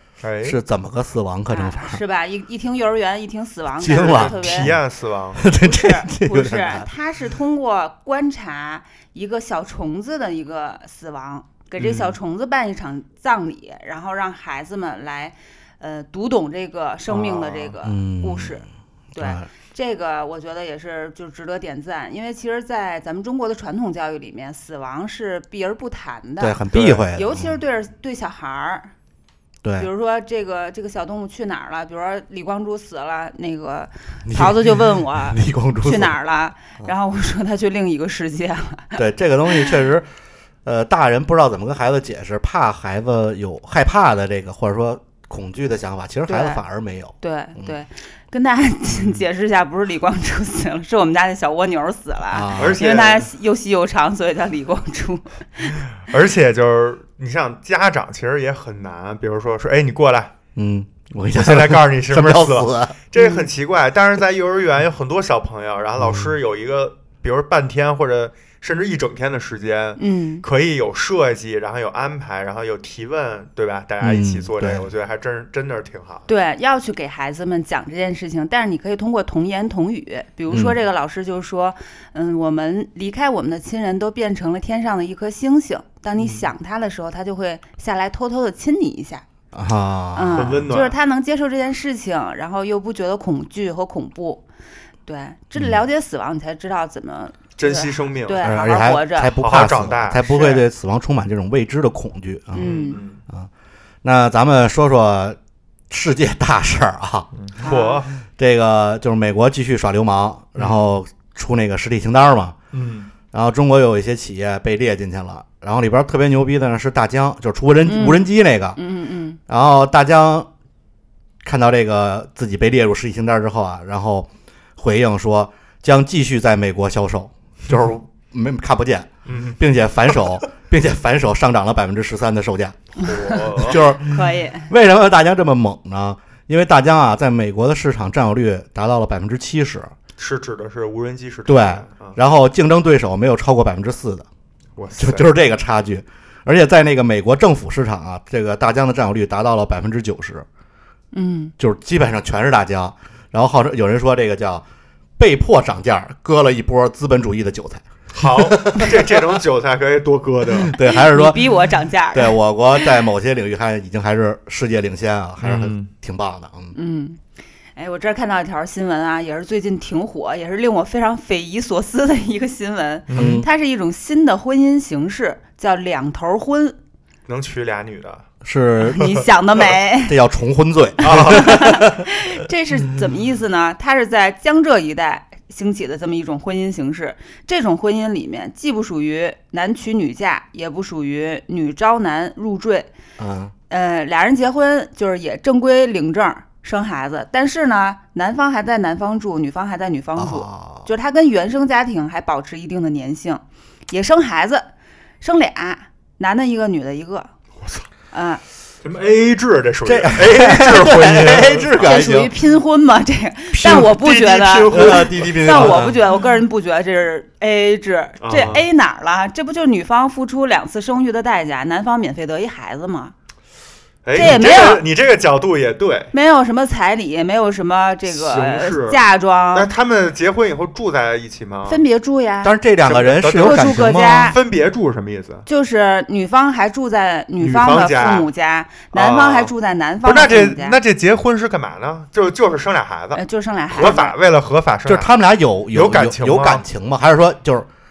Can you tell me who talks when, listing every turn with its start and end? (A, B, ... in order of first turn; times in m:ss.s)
0:00.2-0:00.6 A
0:00.4-0:02.0 B
0:01.5-0:04.7 C
0:03.8-0:04.8 B
0:03.8-0:05.4 A
0:05.3-0:06.9 B
0:05.6-0:28.9 C
0:11.8-0:12.2 A
0:17.1-0:17.5 A
0:17.4-0:18.6 B
0:19.2-0:19.5 B
0:26.4-0:27.5 B
0:26.7-0:27.0 A
0:29.6-0:29.9 B
0:29.8-0:39.7 C
0:34.2-0:36.2 B
0:39.0-0:40.1 B
0:40.6-0:47.8 B
0:46.3-0:46.6 C
0:47.2-0:55.9 C
0:48.9-0:49.2 A
0:52.3-0:52.8 B
0:52.6-0:53.3 A
0:56.0-1:00.3 A
1:00.6-1:03.0 B
1:01.4-1:16.2 A
1:03.2-1:03.5 C
1:06.0-1:06.3 B
1:10.0-1:10.4 C
1:14.0-1:14.9 B
1:16.3-1:29.2 C
1:20.5-1:20.8 B
1:26.2-1:26.5 B
1:29.5-1:30.7 B
1:30.1-1:34.4 C
1:30.3-1:31.0 A
1:35.0-1:39.4 C
1:35.5-1:35.8 B
1:37.6-1:38.5 A
1:38.4-1:43.5 B
1:39.4-1:40.3 A
1:40.3-1:40.7 C
1:42.5-1:43.0 C
1:42.6-1:43.2 A
1:44.0-1:45.4 B
1:45.9-1:47.3 B
1:47.3-1:48.1 A
1:47.6-1:48.0 C
1:48.2-1:52.6 B
1:50.6-1:50.8 A
1:52.7-1:53.1 A
1:53.3-1:58.8 B
1:57.8-1:59.4 C
1:59.5-2:00.5 B
2:01.4-2:19.9 B
2:09.3-2:09.6 A
2:13.0-2:13.8 A
2:14.0-2:14.7 C
2:20.2-2:22.2 A
2:21.4-2:24.3 B
2:24.8-2:25.3 A
2:25.0-2:30.4 B
2:31.1-2:31.5 C
2:31.6-2:34.6 B
2:35.2-2:39.3 B
2:38.1-2:40.8 A
2:40.5-2:41.5 B
2:40.8-2:43.0 C
2:42.1-2:46.8 B
2:45.4-2:45.9 A
2:46.7-2:47.2 C
2:47.8-2:56.8 C
2:53.1-2:53.4 A
2:53.1-2:53.5 B
2:57.3-2:58.2 A
2:58.4-2:59.1 B
2:58.8-3:00.2 C
3:00.0-3:02.0 B
3:01.0-3:01.6 A
3:01.2-3:12.9 C
3:13.2-3:13.5 B
3:13.7-3:24.7 C
3:20.1-3:20.9 B
3:25.2-3:27.3 C
3:28.1-3:28.4 C
3:28.8-3:31.9 A
3:29.8-3:32.3 B
3:31.7-3:43.1 C
3:33.5-3:36.0 A
3:34.7-3:36.0 B
3:38.2-3:38.7 A
3:44.0-3:46.1 A
3:44.1-3:44.8 C
3:46.1-3:49.7 C
3:48.0-3:51.8 A
3:51.6-3:52.6 C
3:52.4-3:54.3 B
3:52.8-3:55.4 A
3:53.4-3:54.4 C
3:55.4-4:00.8 C
3:57.4-3:58.3 A
3:58.9-3:59.5 A
4:00.0-4:03.2 A
4:03.1-4:04.1 C
4:03.7-4:05.2 A
4:04.8-4:07.7 B
4:05.7-4:06.6 A